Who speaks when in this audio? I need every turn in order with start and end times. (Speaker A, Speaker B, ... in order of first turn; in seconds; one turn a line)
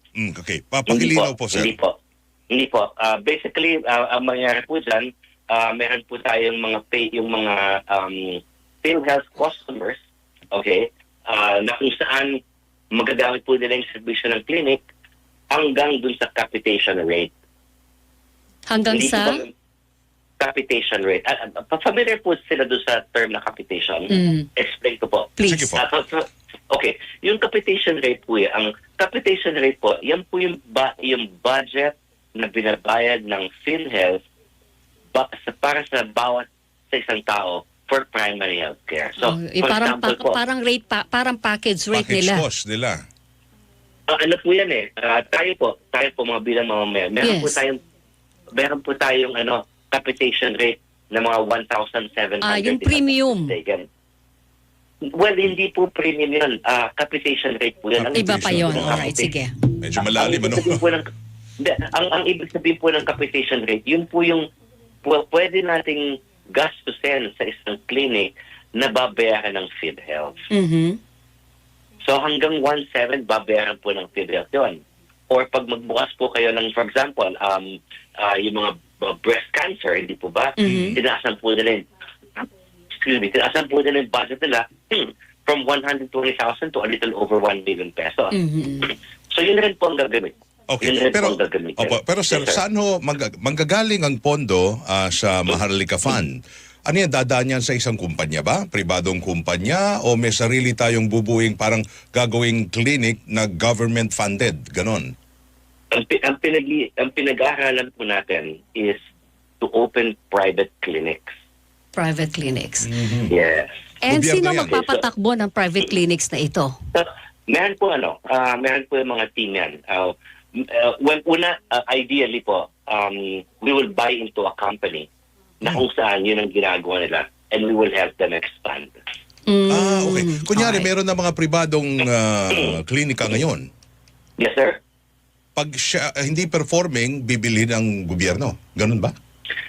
Speaker A: 0.1-1.7
Speaker B: 0.9-1.9
Speaker B: 2.5-12.4
Speaker B: 12.9-14.8
Speaker B: 15.5-17.3
Speaker C: 18.7-19.4
Speaker B: 18.9-19.5
Speaker B: 20.4-34.2
Speaker C: 24.1-24.5
Speaker C: 25.4-25.8
Speaker A: 25.4-25.8
Speaker B: 35.1-40.4
Speaker C: 39.2-42.4
Speaker A: 41.9-43.0
Speaker B: 44.1-47.8
Speaker C: 47.2-47.6
Speaker B: 48.5-53.9
Speaker C: 52.4-53.5
Speaker B: 55.1-59.3
Speaker A: 58.0-59.2
Speaker C: 58.1-59.6
Speaker A: 59.8-60.8
Speaker B: 60.0-64.4
Speaker B: 65.0-70.4
Speaker C: 70.5-71.0
Speaker B: 72.0-92.6
Speaker C: 80.6-81.0
Speaker A: 80.6-81.0
Speaker C: 88.3-88.9
Speaker A: 90.7-105.1
Speaker B: 105.9-109.0
Speaker B: 109.6-111.4
Speaker C: 111.9-112.9
Speaker A: 112.8-113.3
Speaker B: 113.3-113.7
Speaker C: 114.0-116.8
Speaker A: 114.1-114.8
Speaker B: 114.6-115.0
Speaker B: 116.9-125.1
Speaker B: 125.6-129.0
Speaker C: 129.5-130.9
Speaker A: 129.7-133.7
Speaker B: 132.5-132.8
Speaker B: 134.4-134.8
Speaker A: 135.6-139.1